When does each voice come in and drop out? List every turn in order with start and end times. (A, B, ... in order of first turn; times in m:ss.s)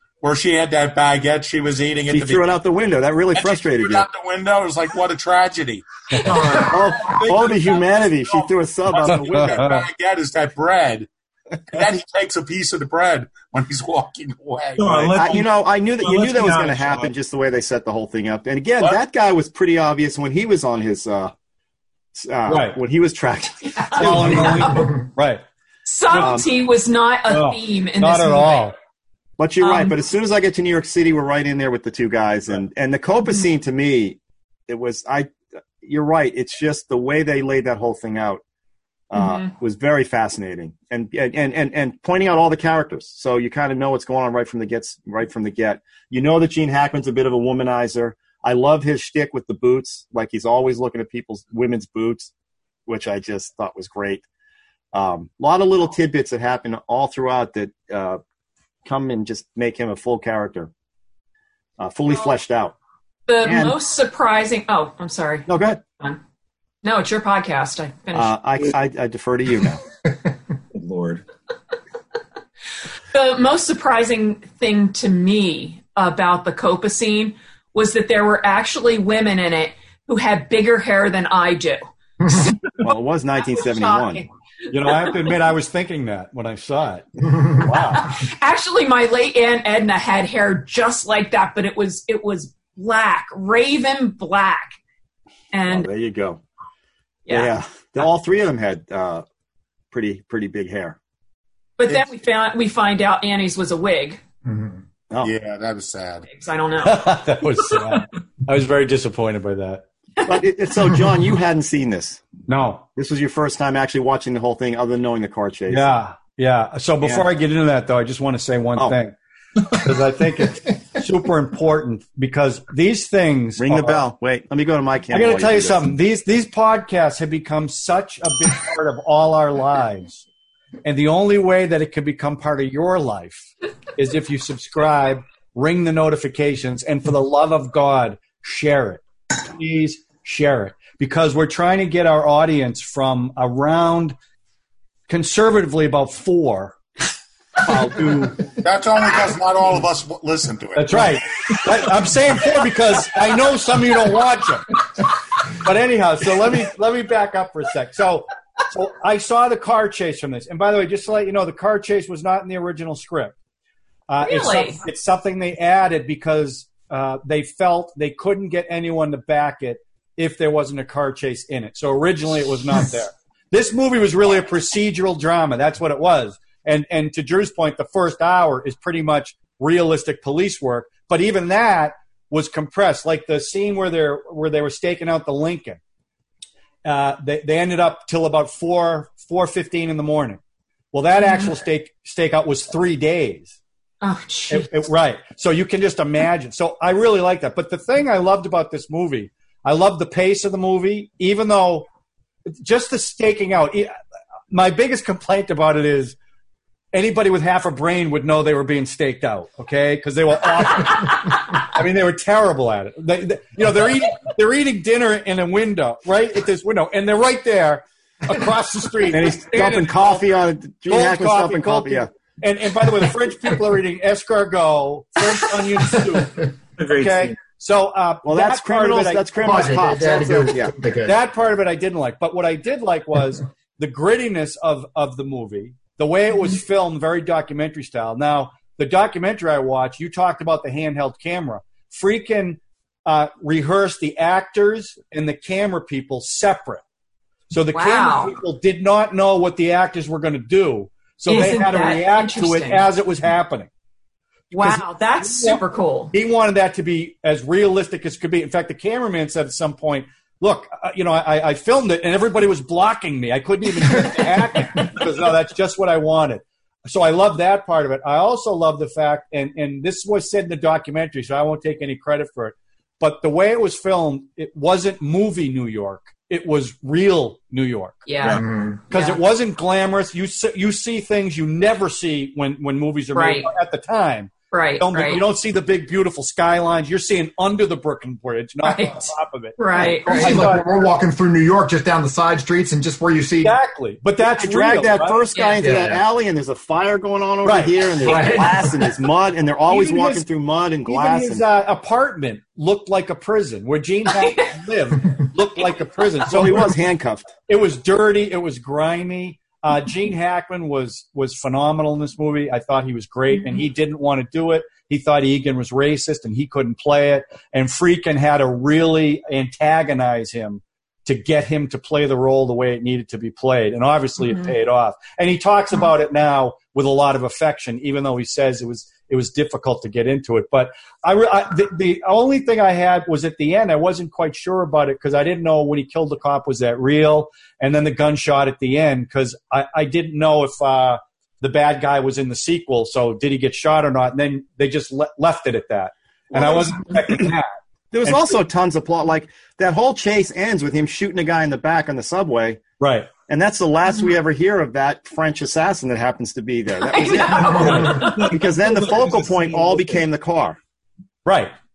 0:00.2-0:02.5 A
0:02.1-0:04.1 B
0:03.3-0:08.4 A
0:06.6-0:09.7 B
0:08.9-0:11.1 A
0:09.1-0:09.8 C
0:11.7-0:15.3 A
0:14.8-0:17.1 D
0:15.1-0:21.3 B
0:22.1-0:24.6 B
0:22.5-0:22.8 C
0:23.8-0:24.9 E
0:24.0-0:25.4 C
0:25.8-0:28.7 E
0:26.1-0:26.4 C
0:26.1-0:26.5 B
0:27.3-0:28.7 C
0:29.4-0:38.4 B
0:29.6-0:29.9 E
0:39.1-0:52.3 B
0:39.1-0:39.5 E
0:52.9-0:54.2 B
0:54.9-0:58.2 B
0:58.8-1:00.7 B
1:01.8-1:02.7 B
1:03.3-1:05.5 E
1:03.4-1:03.8 B
1:05.5-1:05.8 B
1:06.8-1:08.3 E
1:08.1-1:09.8 B
1:10.7-1:11.2 D
1:13.1-1:22.6 E
1:22.8-1:24.2 B
1:23.5-1:24.3 E
1:24.7-1:27.1 C
1:27.6-1:28.1 B
1:27.9-1:34.7 E
1:35.5-1:35.9 E
1:35.7-1:36.4 B
1:37.2-1:37.5 E
1:37.3-1:39.2 B
1:39.9-1:41.0 B
1:41.8-1:44.2 E
1:44.4-1:44.8 F
1:45.2-1:46.2 A
1:46.3-1:47.1 E
1:46.8-1:49.8 C
1:50.2-1:52.2 B
1:52.5-1:52.8 C
1:53.0-1:55.9 B
1:55.7-1:59.1 C
1:57.0-1:57.3 B
1:59.7-2:04.0 C
2:03.6-2:05.9 B
2:05.1-2:10.2 C
2:10.8-2:24.2 C
2:25.1-2:26.8 C
2:27.6-2:28.4 C
2:28.6-2:31.6 A
2:30.7-2:34.8 C
2:35.5-2:43.4 C
2:44.1-3:05.8 C
2:44.2-2:44.8 E
3:06.8-3:10.4 C
3:10.9-3:13.6 C
3:11.2-3:11.5 E
3:14.0-3:14.7 E
3:14.5-3:21.9 C
3:22.6-3:23.9 C
3:24.5-3:26.2 C
3:26.9-3:40.2 C
3:39.1-3:42.1 B
3:40.9-3:50.5 C
3:46.8-3:47.4 D
3:48.2-3:50.7 B
3:49.4-3:51.2 F
3:51.0-4:06.8 C
4:07.5-4:13.7 C
4:07.7-4:08.3 E
4:11.3-4:12.8 E
4:14.5-4:16.1 E
4:14.6-4:15.6 C
4:16.1-4:38.1 C
4:38.1-4:39.2 E
4:38.4-4:38.8 F
4:38.9-4:50.8 C
4:43.1-4:43.5 E
4:44.5-4:45.2 E
4:48.6-4:50.4 E
4:49.8-4:53.6 F
4:53.4-4:55.2 C
4:54.2-5:01.4 B
4:55.3-4:55.6 E
4:55.6-4:56.0 F
4:57.4-4:58.4 C
4:58.0-4:58.6 F
4:59.7-5:00.2 C
5:00.8-5:06.7 C
5:06.3-5:07.3 B
5:07.5-5:48.3 C
5:46.3-5:47.3 B
5:47.9-5:52.6 B
5:52.8-5:53.1 C
5:53.3-6:00.6 B
5:56.8-5:58.3 E
5:57.6-6:00.0 D
6:01.2-6:01.5 C